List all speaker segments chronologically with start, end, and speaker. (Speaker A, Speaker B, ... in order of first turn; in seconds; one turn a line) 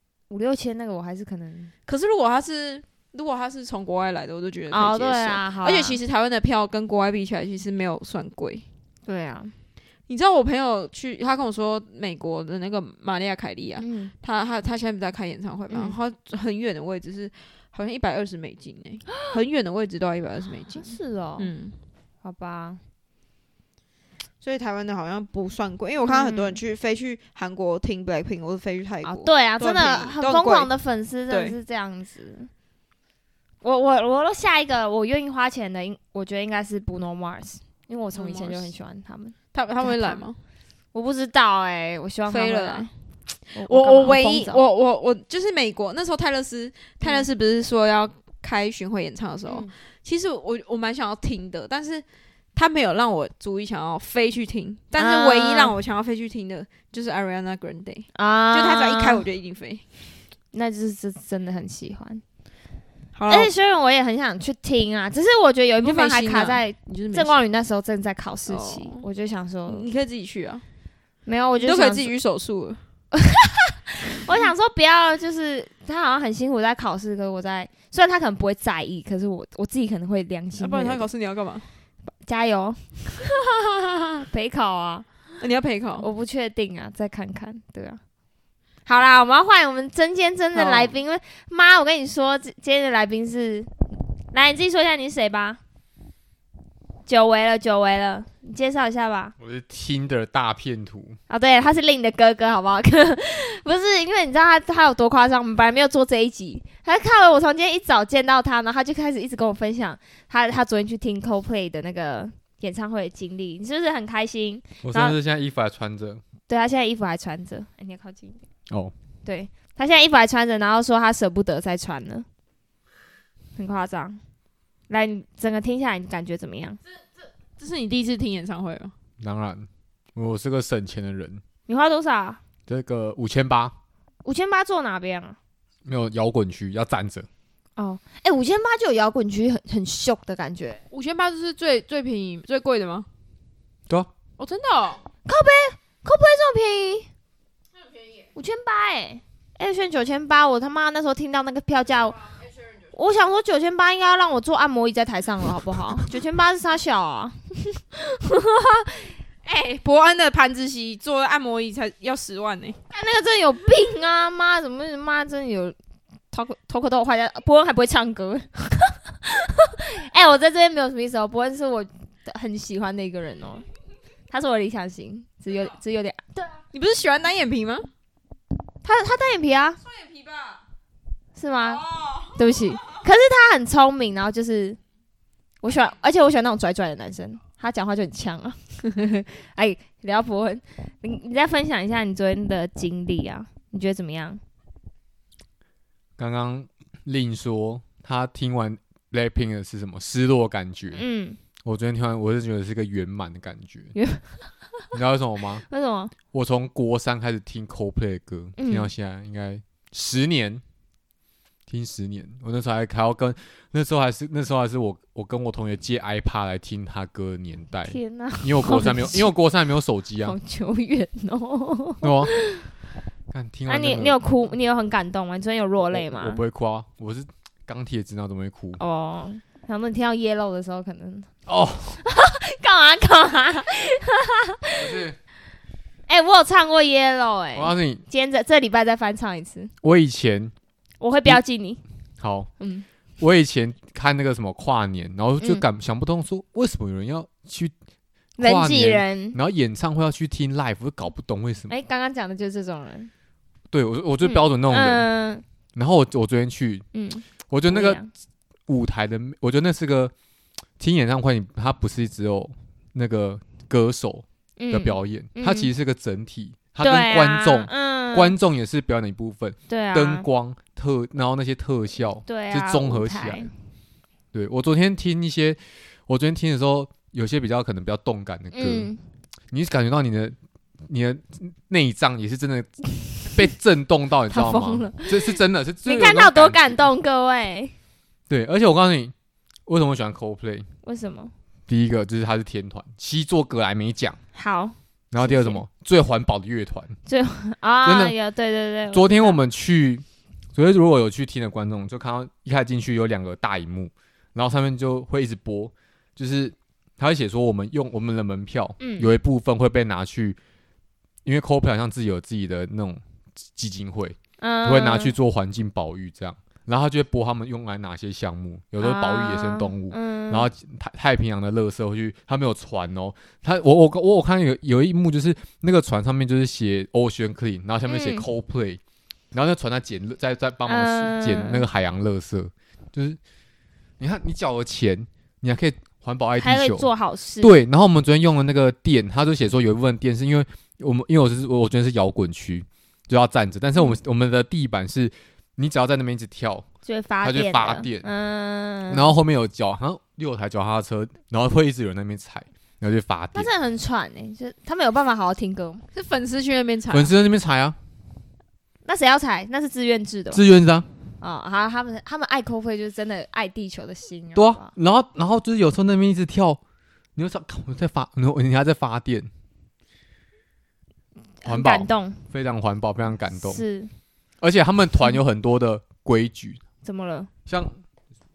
Speaker A: 0.3-1.7
Speaker B: 1.9-8.6
Speaker A: 4.7-6.0
Speaker A: 9.1-9.5
Speaker B: 10.1-21.8
Speaker A: 13.8-14.1
Speaker A: 15.7-16.0
Speaker A: 20.7-21.5
Speaker A: 22.2-22.8
Speaker B: 24.4-30.7
Speaker A: 26.0-26.6
Speaker A: 29.0-32.5
Speaker B: 31.3-31.6
Speaker A: 33.6-40.2
Speaker B: 38.1-38.7
Speaker B: 39.5-40.4
Speaker A: 40.9-42.9
Speaker B: 42.3-42.9
Speaker A: 43.5-44.6
Speaker B: 43.5-52.0
Speaker A: 47.0-47.3
Speaker A: 49.5-49.7
Speaker B: 52.6-59.8
Speaker A: 55.0-55.8
Speaker A: 58.1-59.2
Speaker A: 60.5-62.2
Speaker B: 63.1-63.5
Speaker A: 63.3-69.8
Speaker B: 65.8-67.3
Speaker B: 68.5-69.1
Speaker B: 69.7-70.6
Speaker A: 71.2-72.1
Speaker B: 71.6-72.8
Speaker A: 73.1-81.0
Speaker B: 80.6-81.7
Speaker A: 82.2-85.1
Speaker B: 85.4-86.1
Speaker A: 86.0-88.0
Speaker A: 88.8-95.6
Speaker B: 90.5-91.0
Speaker A: 97.1-99.3
Speaker C: 99.4-101.2
Speaker A: 101.3-115.2
Speaker C: 114.8-116.2
Speaker A: 116.5-118.4
Speaker A: 119.2-122.2
Speaker A: 123.6-124.2
Speaker A: 124.9-126.8
Speaker B: 127.6-128.9
Speaker C: 129.2-131.4
Speaker A: 131.7-132.4
Speaker C: 132.7-133.8
Speaker A: 134.2-135.4
Speaker C: 135.8-137.3
Speaker A: 137.8-140.8
Speaker B: 140.9-143.1
Speaker B: 144.4-145.0
Speaker A: 145.2-147.1
Speaker A: 148.3-152.2
Speaker A: 152.9-159.1
Speaker B: 159.4-162.8
Speaker A: 162.9-165.8
Speaker A: 166.3-173.7
Speaker A: 174.3-176.6
Speaker B: 176.7-177.9
Speaker A: 178.8-179.8
Speaker B: 180.0-180.6
Speaker A: 181.3-184.8
Speaker B: 181.7-182.8
Speaker A: 185.6-194.4
Speaker C: 196.2-201.0
Speaker A: 200.9-201.4
Speaker C: 201.6-203.9
Speaker A: 203.9-204.2
Speaker C: 204.9-205.6
Speaker A: 205.7-206.1
Speaker C: 206.3-210.6
Speaker A: 208.6-208.9
Speaker C: 211.7-220.3
Speaker A: 217.8-219.3
Speaker A: 220.2-222.7
Speaker C: 222.0-222.3
Speaker C: 223.3-224.2
Speaker A: 223.7-226.4
Speaker C: 225.9-228.8
Speaker A: 228.8-231.3
Speaker C: 231.5-232.0
Speaker A: 232.0-235.0
Speaker C: 234.8-235.2
Speaker A: 236.1-239.7
Speaker C: 237.5-238.0
Speaker C: 239.8-240.5
Speaker A: 241.0-241.8
Speaker C: 242.2-242.5
Speaker A: 242.6-242.8
Speaker C: 243.2-247.7
Speaker A: 248.4-249.4
Speaker C: 248.4-251.7
Speaker A: 251.7-253.1
Speaker C: 253.7-255.1
Speaker A: 254.2-255.4
Speaker C: 255.8-256.9
Speaker A: 256.9-258.1
Speaker C: 257.5-258.0
Speaker C: 258.7-260.1
Speaker C: 260.8-273.5
Speaker A: 264.6-265.7
Speaker A: 266.8-268.3
Speaker A: 269.7-270.2
Speaker A: 272.3-273.5
Speaker C: 274.3-278.9
Speaker A: 278.5-279.0
Speaker C: 279.5-280.4
Speaker C: 280.9-286.8
Speaker A: 284.3-287.7
Speaker C: 288.3-289.1
Speaker C: 289.7-290.6
Speaker A: 290.8-291.3
Speaker C: 291.7-294.2
Speaker A: 294.4-295.6
Speaker C: 295.1-297.0
Speaker A: 297.1-299.4
Speaker C: 297.8-298.1
Speaker C: 298.9-310.4
Speaker A: 308.8-309.1
Speaker C: 311.2-313.0
Speaker C: 313.5-328.8
Speaker A: 314.4-315.1
Speaker A: 318.8-320.5
Speaker A: 327.9-328.2
Speaker C: 329.3-333.2
Speaker A: 330.6-331.6
Speaker C: 334.0-336.9
Speaker A: 336.4-337.5
Speaker C: 337.4-346.7
Speaker A: 346.9-349.1
Speaker C: 347.2-348.1
Speaker C: 348.9-353.5
Speaker A: 353.3-355.8
Speaker B: 355.9-357.1
Speaker C: 356.9-357.8
Speaker A: 358.9-360.4
Speaker C: 360.3-360.9
Speaker A: 361.2-364.7
Speaker C: 364.4-366.6
Speaker C: 367.1-369.3
Speaker A: 371.4-372.2
Speaker C: 371.5-373.6
Speaker A: 373.4-373.9
Speaker C: 374.4-376.6
Speaker A: 376.8-377.3
Speaker C: 377.5-377.8